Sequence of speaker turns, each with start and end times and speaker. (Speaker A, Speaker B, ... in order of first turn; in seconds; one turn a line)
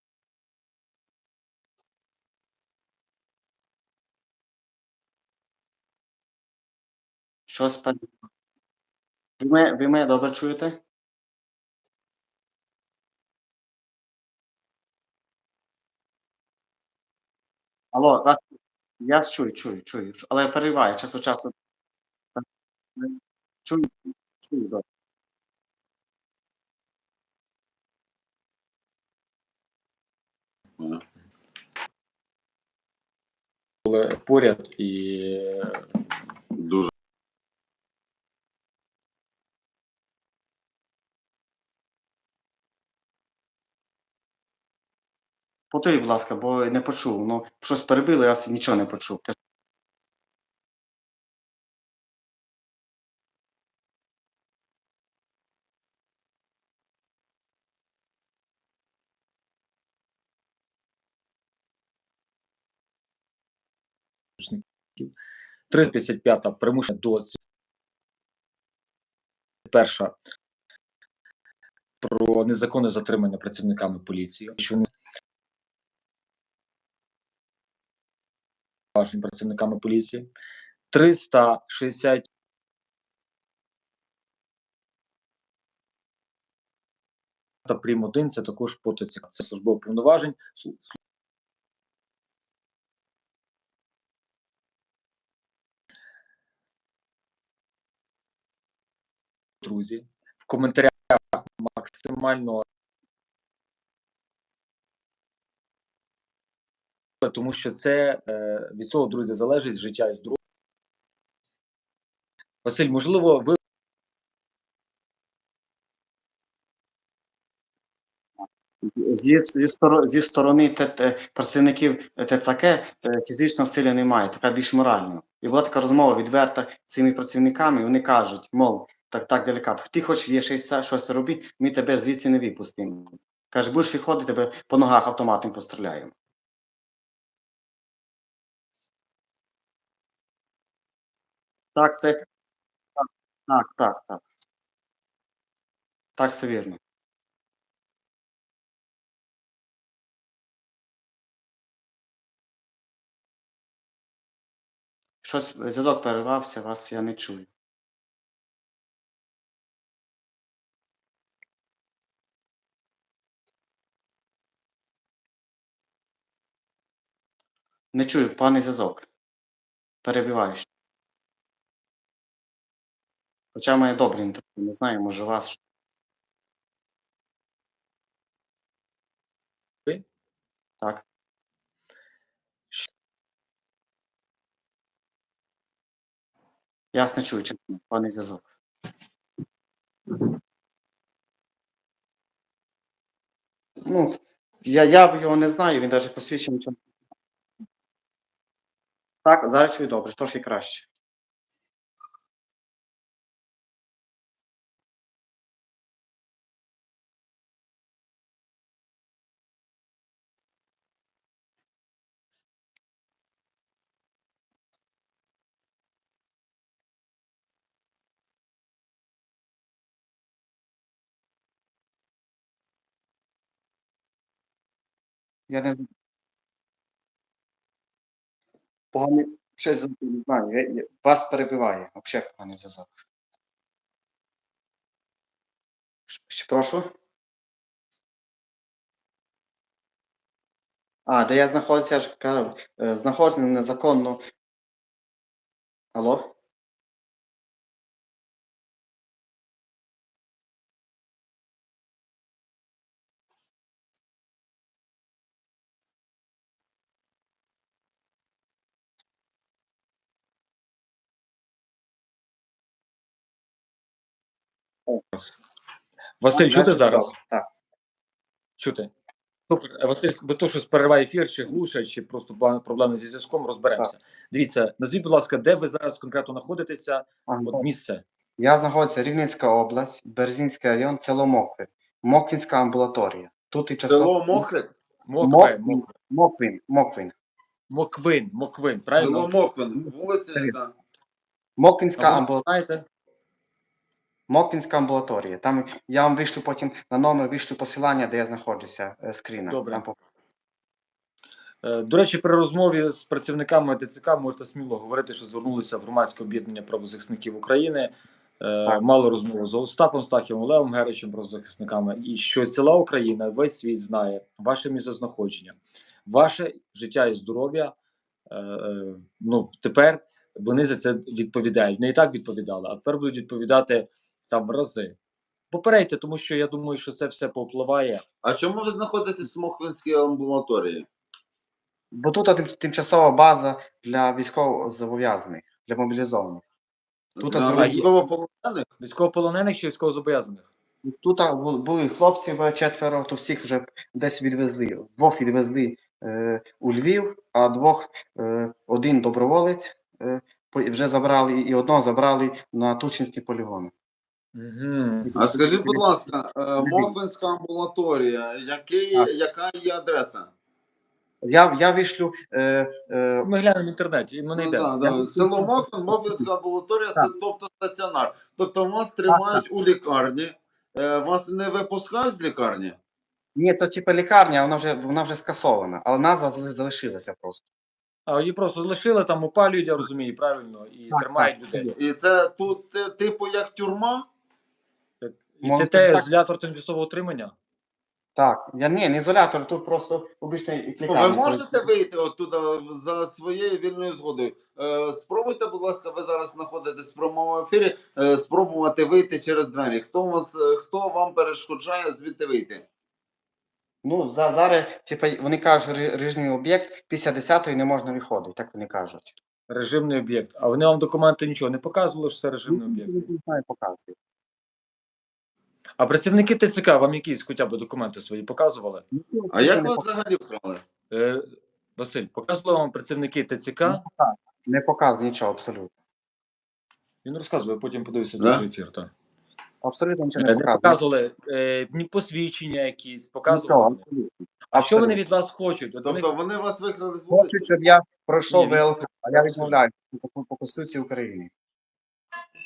Speaker A: 7.5-8.2
Speaker A: 9.4-10.8
Speaker A: 17.9-21.5
Speaker A: 22.9-24.8
Speaker B: 33.8-35.8
Speaker C: 36.5-36.9
Speaker A: 45.7-49.3
Speaker B: 64.4-65.1
Speaker B: 65.7-67.4
Speaker B: 69.7-70.1
Speaker B: 72.0-74.9
Speaker B: 78.9-80.3
Speaker B: 80.9-82.3
Speaker B: 87.6-91.0
Speaker B: 99.6-102.6
Speaker B: 107.2-110.4
Speaker B: 112.6-113.6
Speaker A: 118.8-136.1
Speaker A: 141.7-142.2
Speaker A: 143.0-144.2
Speaker A: 146.2-146.8
Speaker A: 155.2-157.5
Speaker A: 167.9-169.1
Speaker A: 170.0-170.7
Speaker A: 173.5-175.6
Speaker A: 186.9-188.4
Speaker A: 193.8-196.8
Speaker A: 199.2-200.9
Speaker A: 225.5-225.9
Speaker A: 228.9-232.9
Speaker A: 236.1-236.9
Speaker A: 241.1-244.2
Speaker A: 245.9-246.3
Speaker B: 266.2-267.1
Speaker A: 266.3-267.5
Speaker B: 268.6-268.9
Speaker B: 269.5-278.0
Speaker A: 277.3-277.6
Speaker A: 278.4-284.4
Speaker C: 283.9-284.7
Speaker B: 285.1-285.9
Speaker A: 285.2-287.1
Speaker B: 287.7-289.3
Speaker C: 288.9-290.7
Speaker A: 290.3-290.5
Speaker A: 291.6-292.5
Speaker B: 292.0-292.8
Speaker A: 294.3-299.9
Speaker B: 299.5-299.8
Speaker B: 301.6-317.7
Speaker B: 318.3-325.0
Speaker B: 325.5-328.0
Speaker C: 328.2-330.9
Speaker A: 331.9-336.4
Speaker C: 337.2-338.7
Speaker A: 337.2-337.9
Speaker B: 338.8-340.4
Speaker A: 340.8-353.7
Speaker B: 354.3-355.1
Speaker A: 355.1-355.8
Speaker C: 355.2-360.3
Speaker A: 356.6-356.9
Speaker A: 361.2-363.3
Speaker B: 363.2-364.7
Speaker C: 364.4-372.8
Speaker A: 364.8-366.2
Speaker A: 369.1-369.4
Speaker A: 373.3-377.4
Speaker B: 378.1-381.7
Speaker A: 380.9-381.8
Speaker C: 381.8-384.1
Speaker B: 385.0-387.3
Speaker A: 385.4-386.1
Speaker A: 388.1-391.7
Speaker C: 390.9-402.6
Speaker A: 403.8-409.1
Speaker B: 409.5-413.1
Speaker A: 412.5-413.9
Speaker B: 415.8-418.8
Speaker A: 418.9-419.8
Speaker C: 419.3-420.6
Speaker B: 420.9-423.8
Speaker A: 423.6-425.7
Speaker B: 427.0-428.9
Speaker C: 428.2-428.4
Speaker A: 429.6-430.8
Speaker B: 430.2-433.8
Speaker A: 433.3-435.0
Speaker B: 434.5-436.1
Speaker C: 435.8-437.5
Speaker A: 437.1-441.3
Speaker B: 438.3-439.6